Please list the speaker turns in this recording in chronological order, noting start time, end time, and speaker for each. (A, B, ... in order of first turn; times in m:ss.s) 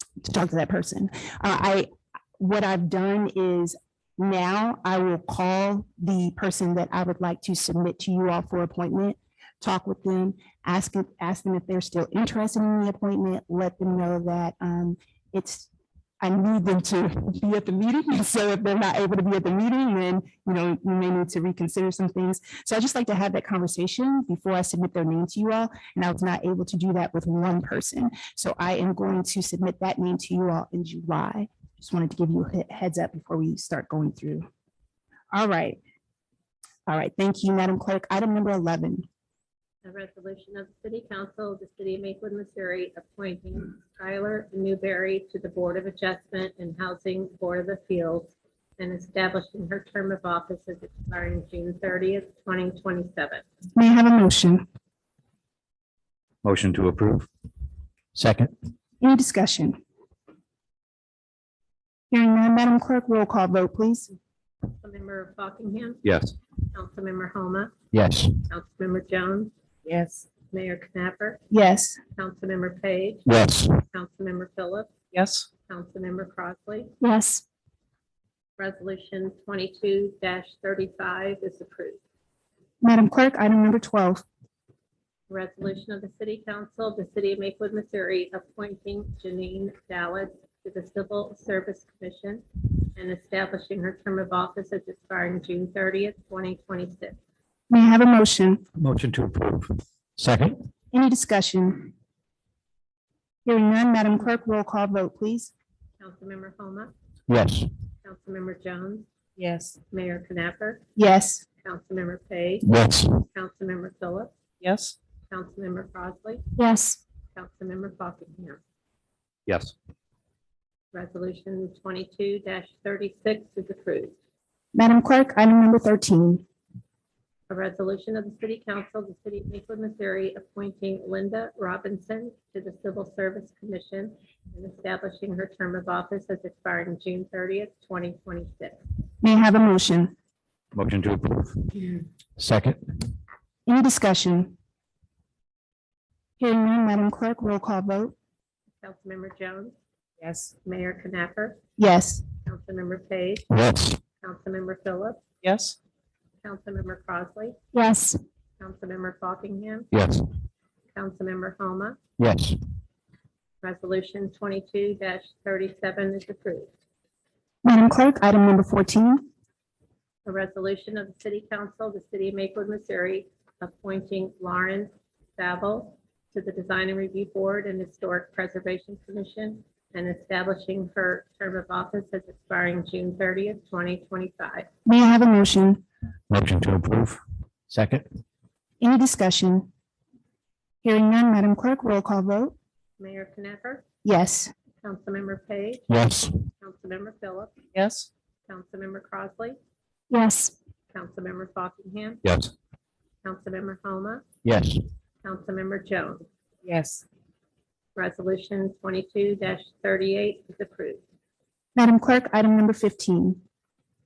0:00.2-0:15.7 A
0:16.2-0:34.5 A
0:35.3-0:35.8 A
0:36.9-0:39.1 A
0:39.8-0:53.4 B
0:53.8-0:54.6 A
0:56.4-0:57.3 C
0:58.1-0:58.5 C
0:59.0-0:59.8 A
1:02.1-1:04.1 A
1:04.7-1:06.0 B
1:06.0-1:06.4 C
1:06.7-1:07.7 B
1:07.9-1:08.4 C
1:08.5-1:09.5 B
1:09.8-1:10.3 D
1:10.5-1:11.4 B
1:11.5-1:12.0 A
1:12.2-1:13.3 B
1:13.3-1:13.8 C
1:13.9-1:14.9 B
1:15.1-1:15.5 D
1:15.7-1:16.9 B
1:17.0-1:17.4 A
1:18.6-1:22.0 B
1:22.8-1:24.2 A
1:25.3-1:32.4 B
1:33.0-1:37.2 B
1:37.7-1:38.6 A
1:38.8-1:40.6 C
1:40.9-1:41.9 A
1:43.4-1:45.5 A
1:46.0-1:46.9 B
1:47.3-1:47.7 C
1:48.0-1:49.1 B
1:49.4-1:49.8 D
1:49.9-1:50.8 B
1:51.0-1:51.4 A
1:51.6-1:52.7 B
1:52.6-1:53.2 C
1:53.3-1:54.3 B
1:54.6-1:55.0 D
1:55.3-1:56.4 B
1:56.6-1:57.0 A
1:57.4-1:58.6 B
1:59.5-1:59.7 C
2:00.9-2:04.1 B
2:04.7-2:06.4 A
2:07.5-2:18.8 B
2:19.2-2:20.1 A
2:20.8-2:21.7 C
2:22.4-2:22.8 C
2:23.7-2:24.5 A
2:26.4-2:28.2 A
2:28.8-2:29.7 B
2:30.2-2:30.5 D
2:30.6-2:31.6 B
2:31.8-2:32.2 A
2:32.4-2:33.5 B
2:33.5-2:34.0 C
2:34.2-2:35.2 B
2:35.4-2:35.8 D
2:36.4-2:37.6 B
2:37.7-2:38.2 A
2:38.6-2:39.9 B
2:39.9-2:40.2 C
2:40.9-2:42.0 B
2:42.2-2:42.6 C
2:43.6-2:46.7 B
2:47.6-2:49.3 A
2:50.2-3:04.7 B
3:04.9-3:05.8 A
3:06.3-3:08.1 C
3:08.8-3:09.7 A
3:10.8-3:12.6 A
3:13.0-3:13.8 B
3:14.0-3:14.5 A
3:14.8-3:15.8 B
3:15.9-3:16.3 C
3:16.6-3:17.5 B
3:17.7-3:18.1 D
3:18.5-3:19.6 B
3:20.1-3:20.6 A
3:20.9-3:22.2 B
3:22.2-3:22.5 C
3:23.2-3:24.2 B
3:24.4-3:24.8 C
3:25.2-3:26.3 B
3:26.6-3:27.0 D
3:28.0-3:31.0 B
3:31.8-3:33.4 A